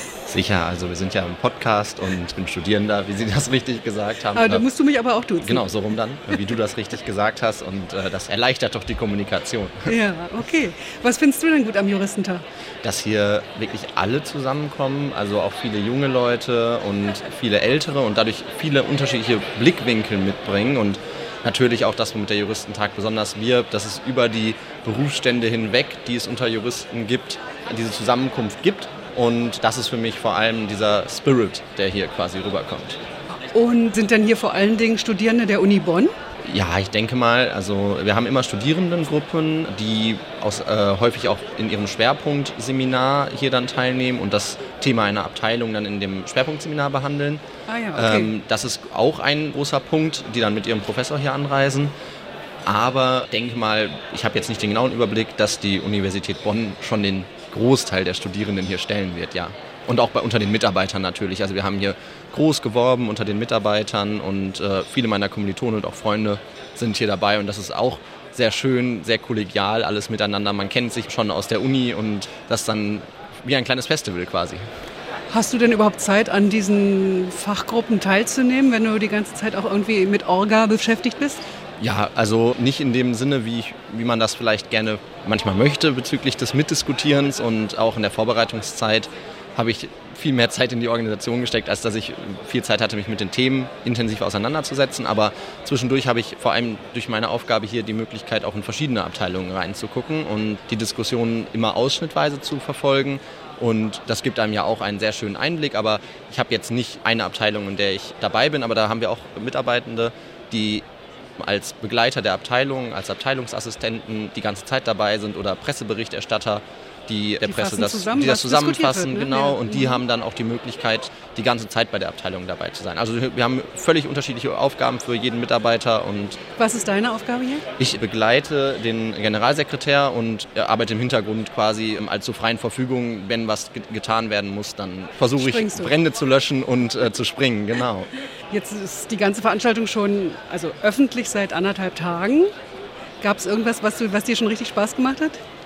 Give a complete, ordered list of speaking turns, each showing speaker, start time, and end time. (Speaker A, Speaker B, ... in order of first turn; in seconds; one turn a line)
Speaker A: 0.3-4.7
Speaker B: 4.3-5.7
Speaker A: 5.4-9.9
Speaker B: 9.8-12.4
Speaker A: 12.8-33.0
Speaker B: 33.5-36.1
Speaker A: 36.4-47.4
Speaker B: 47.7-48.3
Speaker A: 47.9-51.9
Speaker A: 52.6-74.7
Speaker B: 75.3-81.4
Speaker A: 81.8-110.8
Speaker A: 111.4-126.4
Speaker B: 117.4-120.0
Speaker B: 126.6-127.6
Speaker A: 127.8-138.1
Speaker B: 135.4-135.9
Speaker B: 138.5-142.5
Speaker B: 143.2-145.4